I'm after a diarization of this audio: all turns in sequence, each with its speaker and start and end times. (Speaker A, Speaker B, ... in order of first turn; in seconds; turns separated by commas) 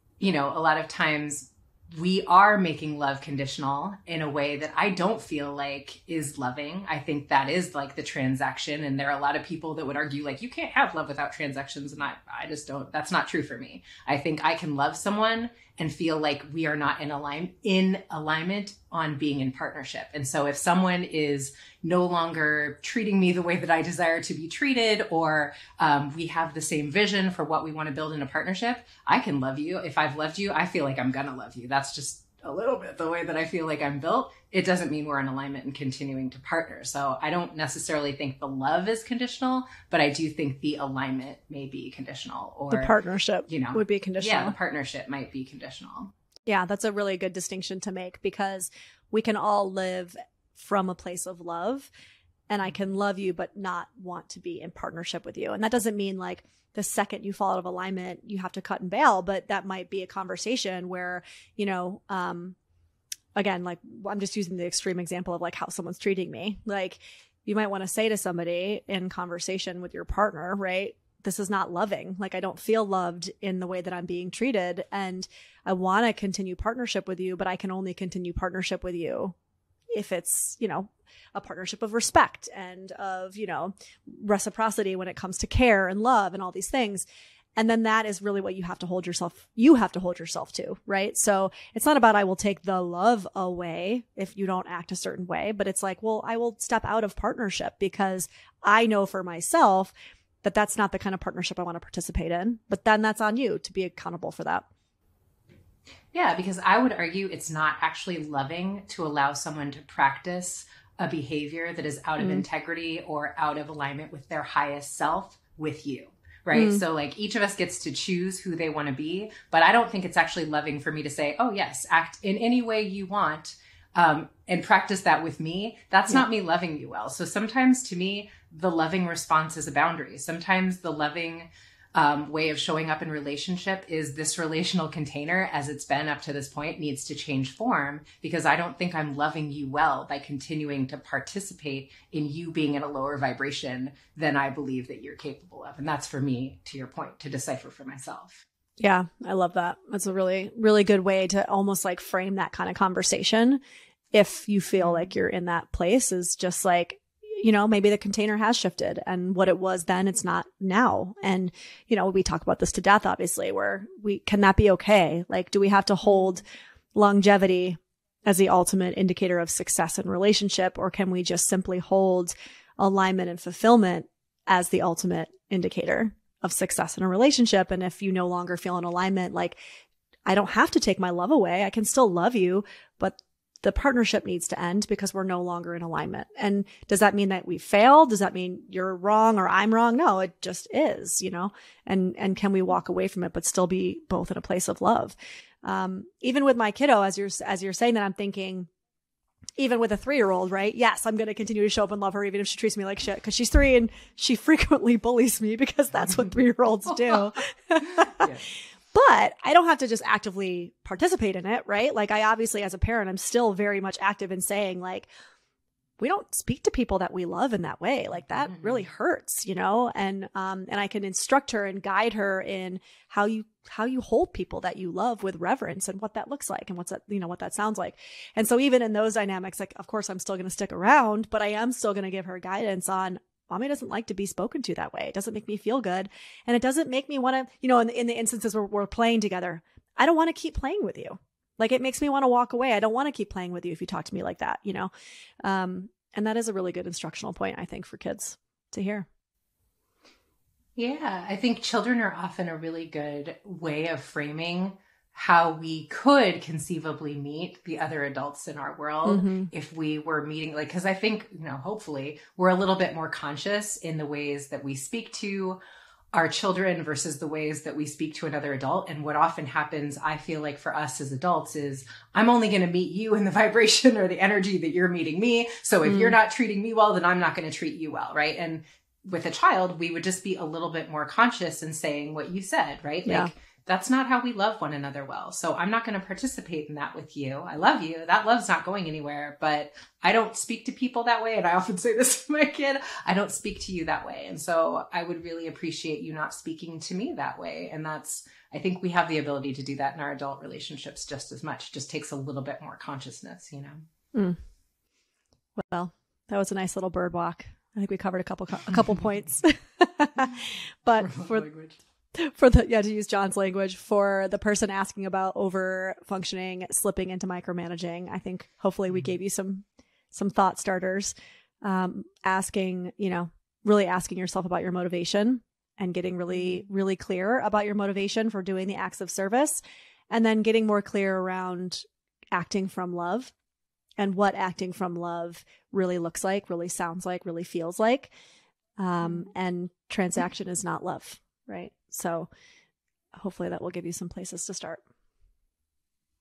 Speaker A: 0.2-42.9, Speaker B: 42.7-44.5, Speaker A: 43.5-46.1, Speaker B: 46.5-51.9, Speaker B: 52.5-62.5, Speaker B: 63.3-79.3, Speaker B: 79.9-104.7, Speaker A: 106.1-148.4, Speaker B: 116.5-116.8, Speaker B: 148.8-153.6, Speaker B: 154.1-166.4, Speaker A: 154.8-155.1, Speaker B: 166.9-179.6, Speaker B: 180.3-198.7, Speaker B: 199.6-215.1, Speaker A: 208.0-208.5, Speaker B: 216.0-244.9, Speaker A: 218.4-218.8, Speaker B: 245.4-249.1, Speaker A: 250.8-265.6, Speaker B: 259.1-259.5, Speaker A: 266.1-303.8, Speaker B: 275.9-276.1, Speaker B: 283.1-283.3, Speaker B: 305.6-311.5, Speaker A: 311.0-311.8, Speaker B: 312.1-333.3, Speaker B: 334.0-338.1, Speaker B: 338.8-342.3, Speaker A: 339.0-339.3, Speaker B: 343.1-344.8